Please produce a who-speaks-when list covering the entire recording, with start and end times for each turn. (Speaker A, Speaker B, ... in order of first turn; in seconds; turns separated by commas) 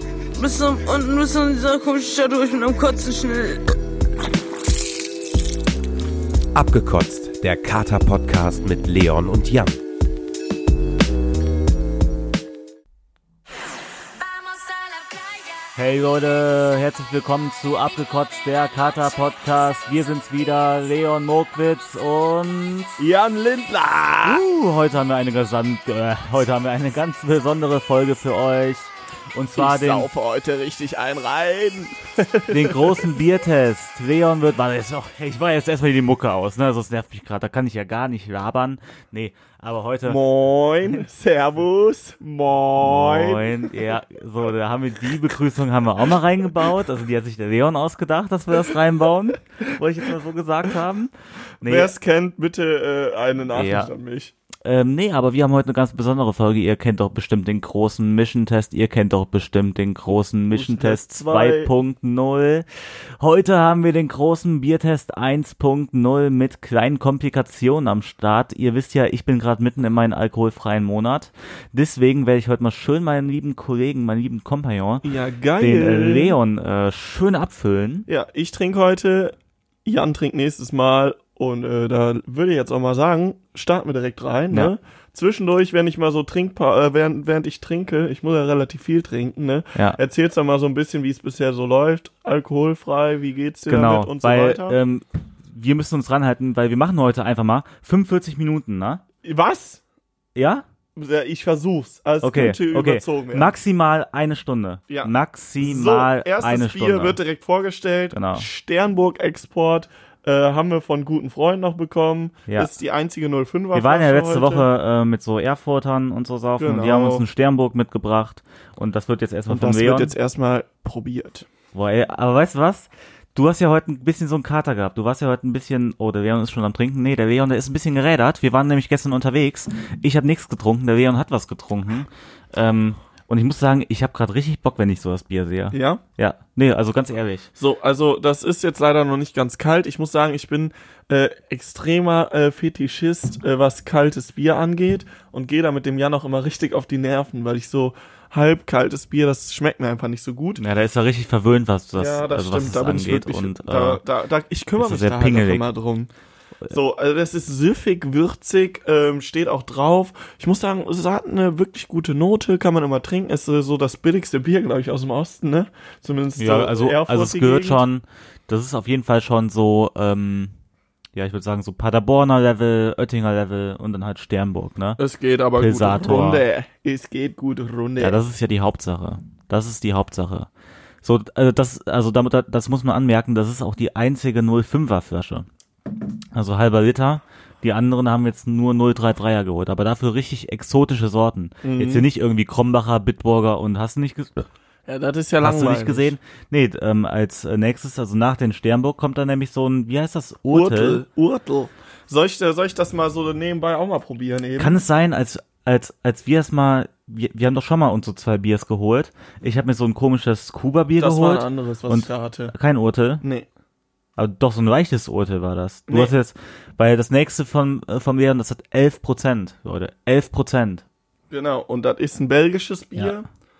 Speaker A: 0.3-3.7, Speaker B: 6.5-9.8, Speaker A: 14.9-15.2, Speaker C: 15.7-23.0, Speaker D: 23.0-24.4, Speaker C: 24.2-30.1, Speaker D: 29.5-33.1, Speaker C: 32.5-40.2, Speaker D: 40.0-43.5, Speaker C: 42.8-51.9, Speaker D: 51.6-54.3, Speaker C: 53.5-53.9, Speaker C: 54.6-75.1, Speaker D: 60.5-61.7, Speaker D: 75.0-76.3, Speaker C: 75.6-78.1, Speaker D: 78.1-94.8, Speaker C: 93.7-99.0, Speaker D: 99.2-99.8, Speaker C: 100.3-100.6, Speaker D: 101.0-103.5, Speaker C: 102.2-107.2, Speaker D: 104.9-114.7, Speaker C: 108.1-108.5, Speaker C: 113.7-120.1, Speaker D: 116.6-117.2, Speaker D: 119.5-121.5, Speaker C: 121.7-137.5, Speaker D: 135.7-136.0, Speaker D: 137.6-150.6, Speaker C: 150.6-154.0, Speaker D: 151.9-156.1, Speaker C: 154.8-155.7, Speaker D: 156.7-167.8, Speaker C: 166.4-170.5, Speaker C: 171.2-175.0, Speaker D: 175.0-178.2, Speaker C: 175.6-176.4, Speaker C: 178.0-180.5, Speaker C: 181.0-185.5, Speaker C: 186.3-194.5, Speaker D: 191.6-192.1, Speaker D: 194.9-196.1, Speaker C: 195.4-201.0, Speaker D: 200.5-204.8, Speaker C: 204.6-213.2, Speaker D: 211.0-212.5, Speaker D: 213.2-213.5, Speaker C: 214.2-220.8, Speaker D: 215.9-216.1, Speaker D: 221.3-223.3